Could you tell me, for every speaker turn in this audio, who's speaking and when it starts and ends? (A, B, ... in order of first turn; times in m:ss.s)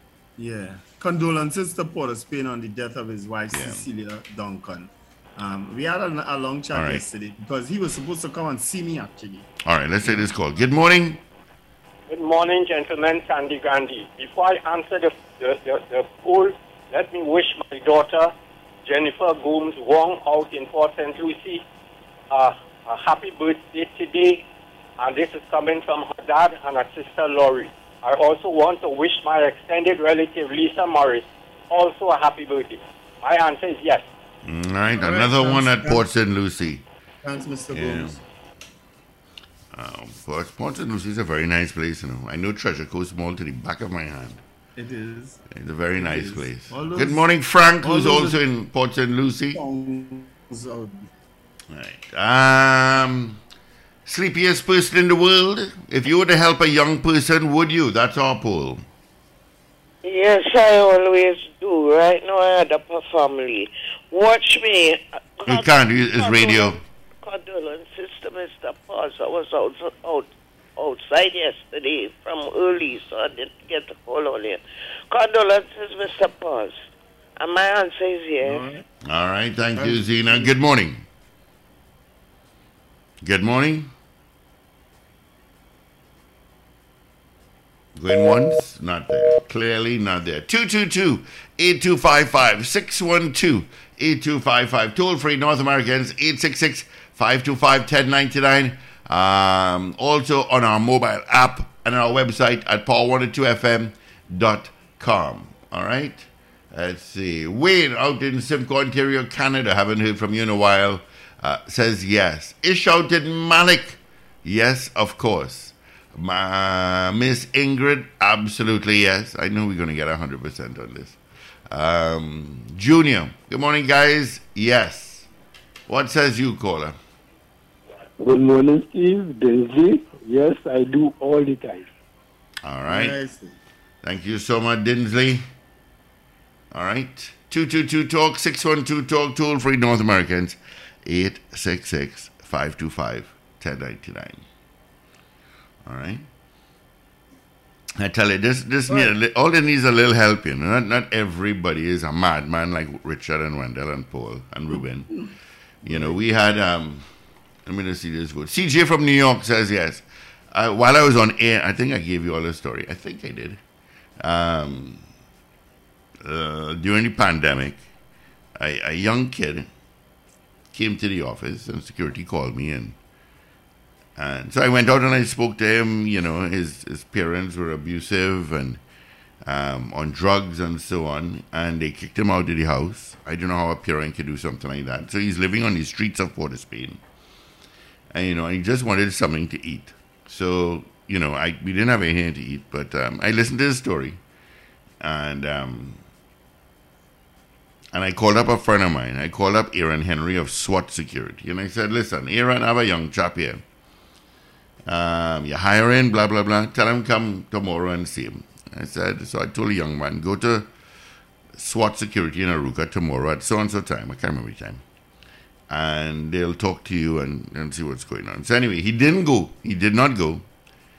0:00.4-0:09.5 A
0:03.5-0:03.8 B
0:06.7-0:07.0 B
0:09.6-0:11.2 B
0:12.1-0:18.3 C
0:18.8-0:21.6 C
0:22.3-0:24.4 C
0:25.0-0:34.0 C
0:34.4-0:36.8 B
0:35.0-0:36.0 A
0:37.2-0:38.2 A
0:37.7-0:38.2 B
0:39.7-0:44.4 B
0:44.8-0:45.4 A
0:45.5-0:49.6 B
0:46.0-0:47.3 A
0:47.8-0:48.4 A
0:49.5-0:51.1 A
0:51.7-0:53.4 B
0:54.0-0:58.8 B
1:00.0-1:16.8 D
1:05.4-1:06.8 B
1:17.4-1:18.6 D
1:18.4-1:18.8 A
1:19.0-1:21.0 B
1:19.8-1:20.5 A
1:23.2-1:23.9 B
1:28.0-2:01.2 B
2:01.7-2:05.3 B
2:05.9-2:07.0 B
2:08.2-2:11.9 E
2:12.6-2:13.2 B
2:12.9-2:13.6 A
2:14.0-2:15.4 B
2:16.7-2:24.4 B
2:25.8-2:26.2 B
2:28.0-2:35.3 B
2:28.9-2:29.1 A
2:35.8-2:37.0 B
2:35.9-2:36.2 A
2:37.6-2:43.6 B
2:44.2-2:45.0 B
2:46.2-2:47.8 B
2:48.6-2:49.7 B
2:50.7-2:53.0 B
2:54.2-2:58.8 B
2:59.4-3:07.0 B
3:08.1-3:14.2 B
3:15.0-3:16.0 B
3:17.9-3:23.6 B
3:24.9-3:30.7 B
3:31.6-3:34.8 B
3:35.7-3:40.4 B